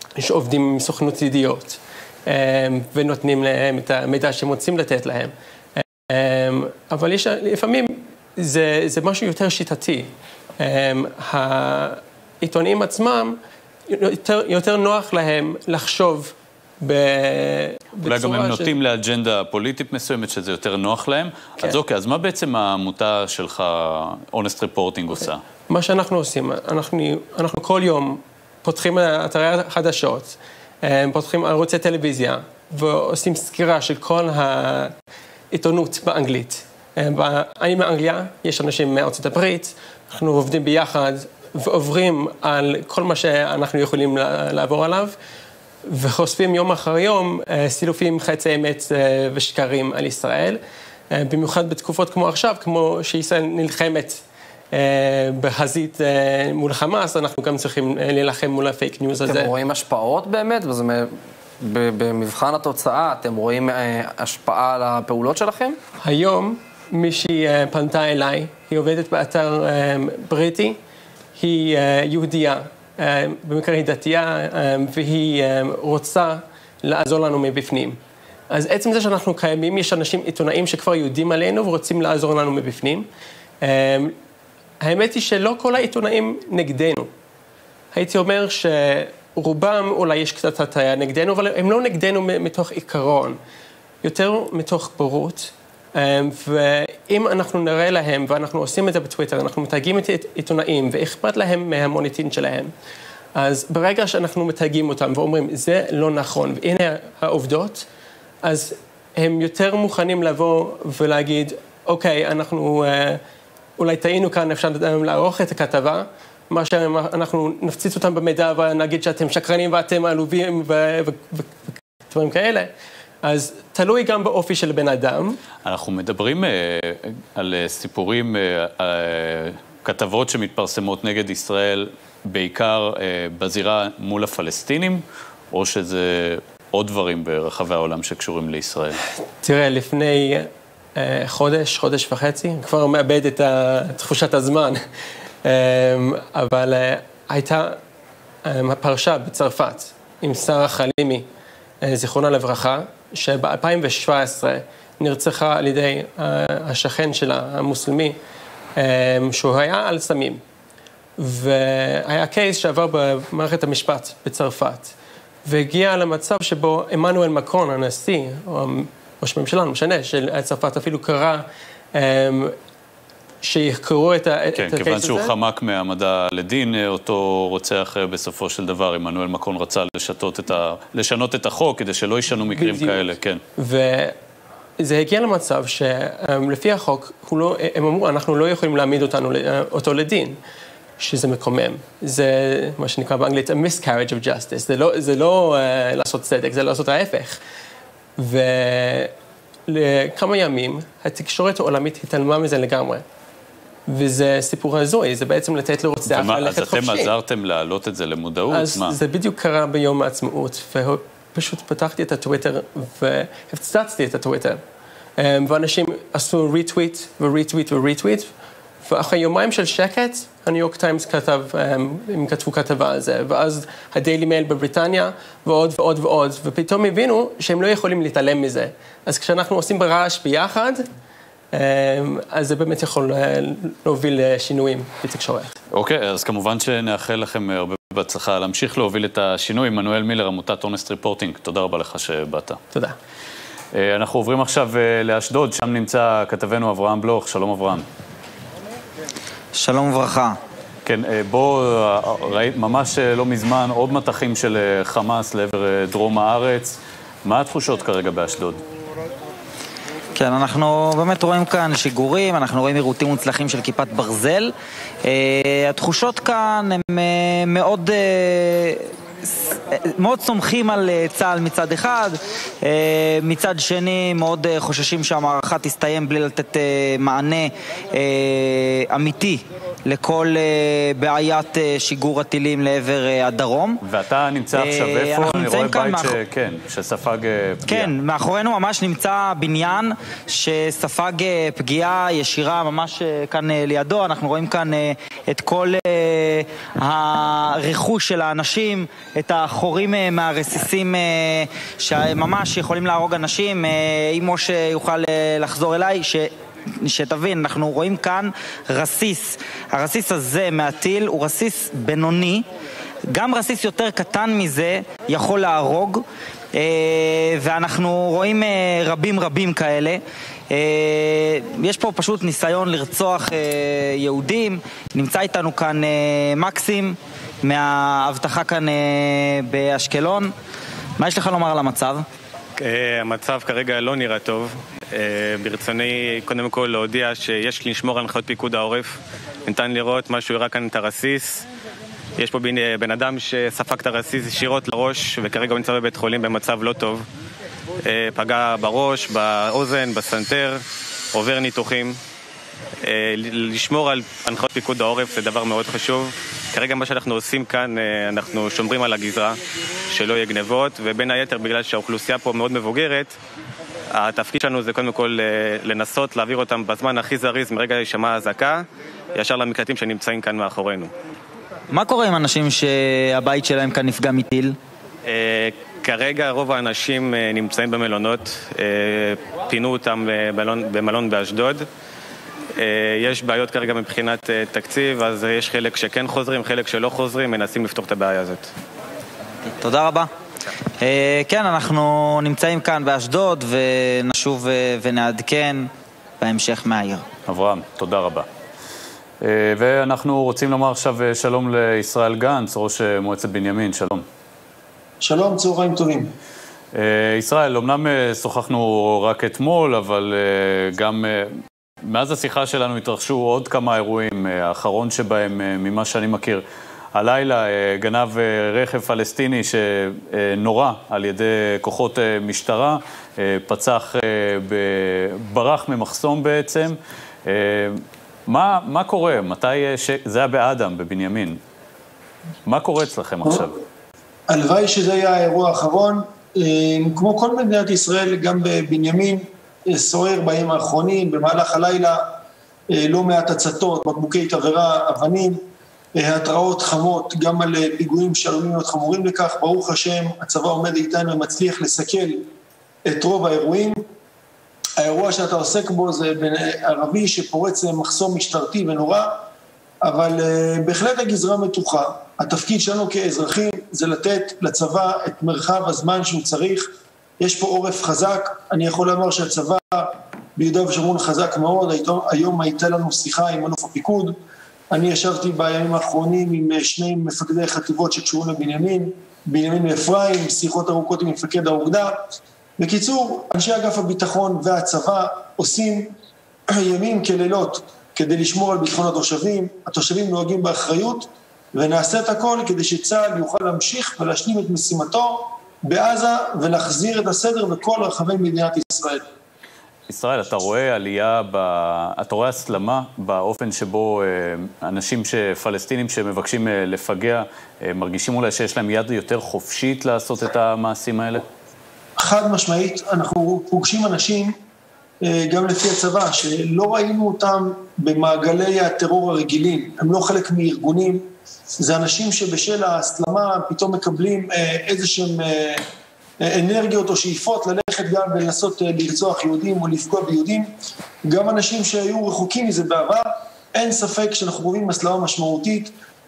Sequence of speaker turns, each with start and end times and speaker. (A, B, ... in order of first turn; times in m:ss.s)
0:00.2-0:13.4 A
0:13.9-0:18.7 A
0:18.1-0:25.4 B
0:25.2-0:34.9 A
0:35.5-0:45.1 A
0:45.9-0:50.6 A
0:51.2-0:54.2 A
0:54.7-0:59.5 A
0:59.2-1:05.8 C
1:06.0-1:10.8 A
1:11.4-1:18.0 A
1:18.5-1:23.1 A
1:23.6-1:24.1 A
1:24.8-1:27.1 A
1:27.9-1:33.4 A
1:34.0-1:42.7 A
1:43.4-1:47.8 A
1:48.4-1:53.2 A
1:53.8-2:02.7 A
2:03.2-2:05.4 A
2:05.6-2:19.0 B
2:19.4-2:24.8 A
2:25.5-2:27.8 A
2:28.5-2:31.3 A
2:31.8-2:38.2 A
2:38.8-2:40.4 A
2:41.2-2:44.9 A
2:45.5-2:51.4 A
2:52.0-2:52.5 A
2:53.4-2:55.3 A
2:54.6-3:03.4 B
3:02.5-3:03.0 A
3:03.6-3:04.2 A
3:04.8-3:10.4 A
3:11.0-3:17.4 A
3:18.2-3:19.1 A
3:19.7-3:23.0 A
3:23.9-3:27.1 A
3:26.1-3:28.9 B
3:28.5-3:34.6 A
3:35.2-3:38.3 A
3:38.8-3:50.8 A
3:51.5-3:55.6 A
3:55.7-4:02.6 B
4:03.7-4:07.9 B
4:09.6-4:10.4 D
4:10.9-4:18.6 B
4:20.2-4:24.5 D
4:25.1-4:43.8 D
4:43.8-4:47.9 B
4:44.6-4:46.2 D
4:47.7-5:12.4 D
5:13.1-5:16.0 D
5:16.5-5:30.3 D
5:31.0-5:32.0 D
5:32.6-5:41.4 E
5:42.2-5:47.0 E
5:47.8-5:50.6 E
5:51.1-5:52.0 E
5:52.8-5:59.4 E
5:59.9-6:03.2 E
6:03.9-6:10.9 E
6:11.7-6:14.6 D
6:15.1-6:21.7 E
6:22.6-6:28.5 E
6:29.6-6:30.1 D
6:30.8-6:35.7 D
6:36.2-6:37.0 D
6:37.3-6:38.3 B
6:39.2-6:44.0 B
6:45.0-6:46.1 F
6:46.7-6:56.4 B
6:57.0-7:11.4 B
7:12.5-7:13.6 B
7:14.3-7:22.2 F
7:22.8-7:25.4 F
7:26.0-7:32.2 F
7:32.9-7:33.8 F
7:34.8-7:39.2 F
7:39.8-7:54.2 F
7:54.7-8:02.0 F
8:02.6-8:05.9 F
8:06.6-8:19.0 F
8:19.9-8:31.2 B
8:32.0-8:34.3 F
8:35.1-8:45.6 F
8:46.3-8:50.5 F
8:51.1-8:55.7 F